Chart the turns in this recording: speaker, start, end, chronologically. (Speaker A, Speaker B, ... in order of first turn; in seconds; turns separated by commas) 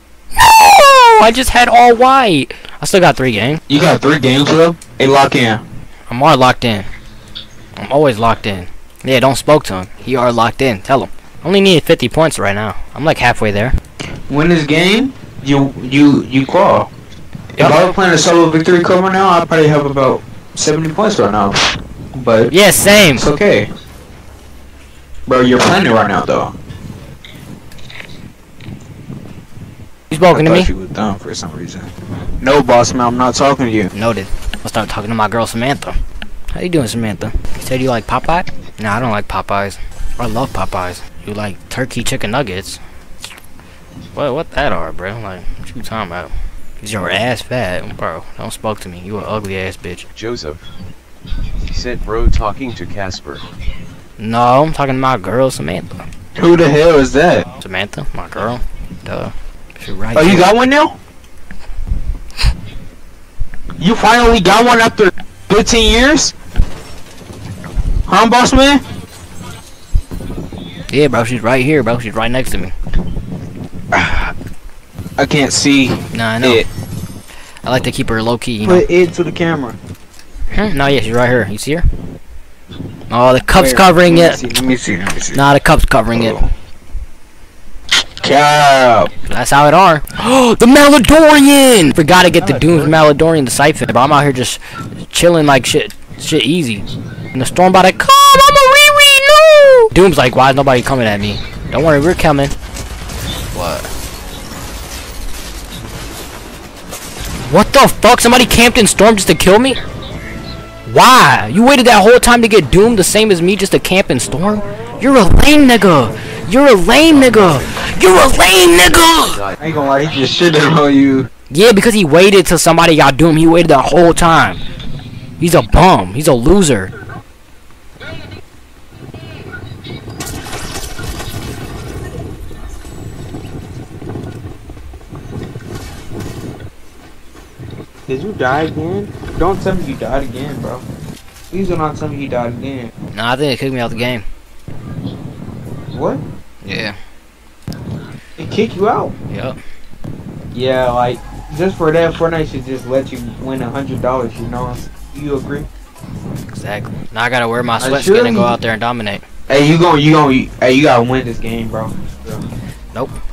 Speaker A: 0.4-3.6, Speaker B: 3.7-5.6, Speaker A: 6.1-6.9, Speaker A: 7.8-13.7, Speaker B: 14.3-16.9, Speaker A: 17.6-17.8, Speaker B: 17.6-22.5, Speaker A: 22.5-23.3, Speaker B: 23.1-23.7, Speaker B: 25.3-26.5, Speaker A: 30.1-30.7, Speaker B: 30.3-33.9, Speaker A: 33.9-36.0, Speaker A: 36.5-42.8, Speaker A: 44.1-50.0, Speaker C: 50.1-50.6, Speaker C: 51.7-53.4, Speaker A: 54.2-56.0, Speaker B: 56.4-57.5, Speaker A: 57.6-60.5, Speaker B: 60.1-61.0, Speaker B: 63.8-66.3, Speaker B: 68.1-68.8, Speaker A: 70.9-72.7, Speaker B: 73.9-74.3, Speaker B: 75.2-76.7, Speaker A: 76.1-76.6, Speaker A: 77.6-78.8, Speaker B: 78.6-79.8, Speaker A: 80.5-81.8, Speaker A: 83.1-84.4, Speaker B: 83.5-85.4, Speaker A: 85.3-86.3, Speaker B: 86.1-86.5, Speaker B: 88.1-89.1, Speaker A: 89.3-102.5, Speaker B: 92.3-93.0, Speaker A: 103.5-103.9, Speaker A: 107.4-109.8, Speaker A: 110.8-119.4, Speaker C: 117.1-119.6, Speaker B: 119.6-121.3, Speaker A: 121.5-124.6, Speaker A: 125.4-126.9, Speaker B: 138.1-140.8, Speaker B: 141.5-142.9, Speaker A: 143.1-144.2, Speaker B: 145.9-146.2, Speaker A: 146.6-147.0, Speaker B: 148.4-149.1, Speaker A: 149.3-149.6, Speaker B: 150.5-155.7, Speaker A: 156.4-159.2, Speaker B: 157.8-158.6, Speaker B: 159.5-162.4